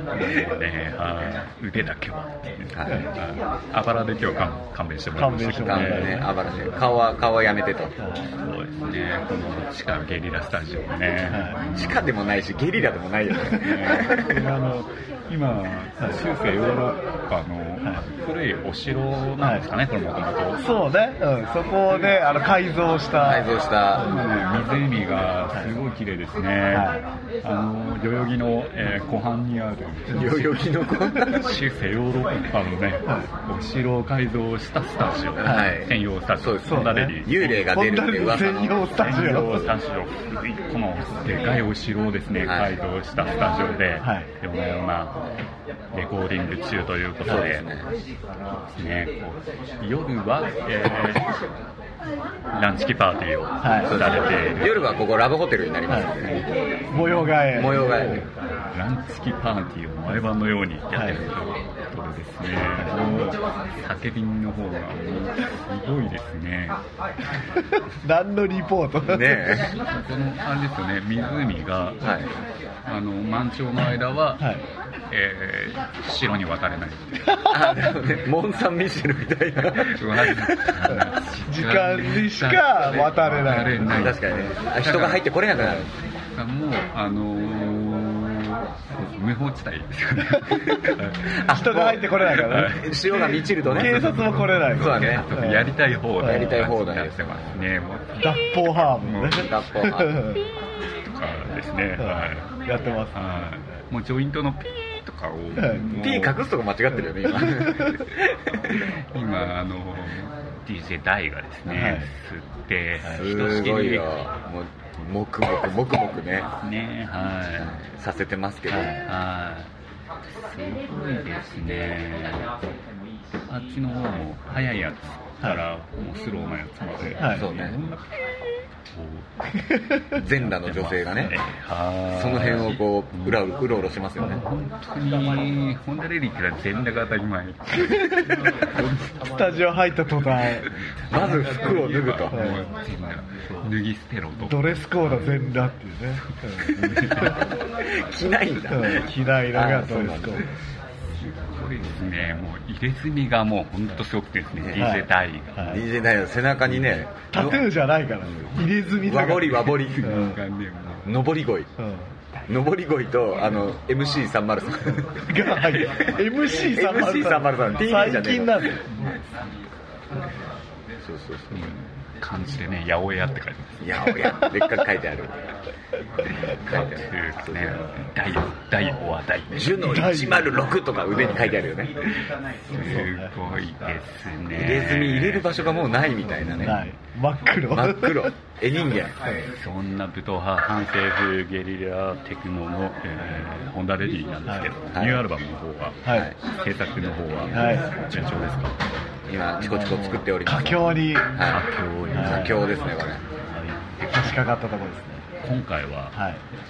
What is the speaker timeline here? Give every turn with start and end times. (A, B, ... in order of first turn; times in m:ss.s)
0:00.1-0:06.3 A
0:02.7-0:03.0 B
0:05.1-0:06.3 C
0:05.6-0:08.0 B
0:08.2-0:12.1 A
0:11.3-0:11.6 C
0:11.7-0:14.4 B
0:13.5-0:20.7 A
0:19.4-0:19.6 C
0:20.6-0:23.5 C
0:23.2-0:24.1 B
0:24.0-0:37.7 A
0:26.7-0:27.0 C
0:30.1-0:31.5 B
0:35.4-0:39.2 B
0:36.6-0:39.7 C
0:38.9-0:45.3 A
0:42.4-0:42.8 B
0:44.0-0:44.3 C
0:45.9-0:47.7 A
0:47.2-0:47.9 B
0:48.7-0:51.3 A
0:52.5-0:55.0 A
0:53.6-0:53.9 C
0:53.8-0:56.4 B
0:55.9-0:56.1 C
0:56.1-1:06.8 A
0:56.9-0:57.9 C
0:57.5-0:58.3 B
1:02.7-1:03.0 C
1:07.6-1:09.6 C
1:09.0-1:09.7 B
1:09.7-1:12.1 A
1:12.0-1:12.3 B
1:12.8-1:14.5 A
1:14.4-1:14.6 C
1:15.1-1:17.5 A
1:17.5-1:21.0 B
1:19.8-1:31.4 A
1:21.4-1:23.9 C
1:23.8-1:25.9 B
1:30.7-1:34.1 B
1:31.5-1:36.5 C
1:32.2-1:39.5 A
1:34.7-1:35.3 B
1:36.2-1:37.6 B
1:38.2-1:40.4 C
1:39.3-1:40.3 B
1:40.4-1:42.5 A
1:42.0-1:43.2 C
1:43.1-1:46.4 A
1:45.6-1:45.9 C
1:46.0-1:48.8 B
1:47.4-1:47.9 C
1:49.1-1:54.1 A
1:51.7-1:52.1 C
1:53.1-1:56.5 B
1:56.6-1:57.8 A
1:57.6-1:59.0 B
1:58.7-1:59.0 C
1:59.0-1:59.7 A
2:00.3-2:02.5 A
2:03.5-2:09.3 A
2:07.2-2:07.5 C
2:07.3-2:07.8 B
2:10.1-2:11.4 B
2:10.1-2:19.3 A
2:12.1-2:14.4 B
2:18.0-2:18.5 C
2:19.2-2:20.7 C
2:20.6-2:25.3 A
2:21.1-2:22.4 B
2:22.3-2:22.7 C
2:24.4-2:27.4 C
2:26.6-2:27.4 A
2:26.8-2:30.4 B
2:28.7-2:30.5 C
2:31.1-2:35.8 A
2:34.6-2:34.9 B
2:34.7-2:35.8 C
2:35.6-2:37.6 B
2:37.3-2:40.4 C
2:39.0-2:40.2 B
2:39.6-2:41.2 A
2:41.0-2:41.7 B
2:41.8-2:42.1 C
2:42.5-2:45.4 B
2:45.3-2:48.8 C
2:45.7-2:46.0 A
2:46.5-2:48.8 B
2:48.9-2:49.2 A
2:51.0-2:51.7 B
2:51.5-2:54.1 A
2:53.8-2:55.3 B
2:56.3-2:57.9 B
2:56.7-3:00.2 A
2:59.5-3:01.9 B
2:59.8-3:00.7 C
3:02.6-3:05.6 A
3:02.7-3:03.3 C
3:04.5-3:06.8 B
3:06.4-3:06.9 A
3:06.6-3:08.3 C
3:07.7-3:09.2 B
3:09.4-3:18.8 A
3:14.9-3:15.2 B
3:16.0-3:16.3 C
3:17.5-3:17.9 C
3:19.3-3:21.6 B
3:19.6-3:21.4 C
3:21.4-3:22.8 A
3:22.1-3:22.6 C
3:22.1-3:23.2 B
3:23.4-3:24.4 A
3:24.0-3:25.3 C
3:25.4-3:26.2 A
3:26.1-3:26.4 C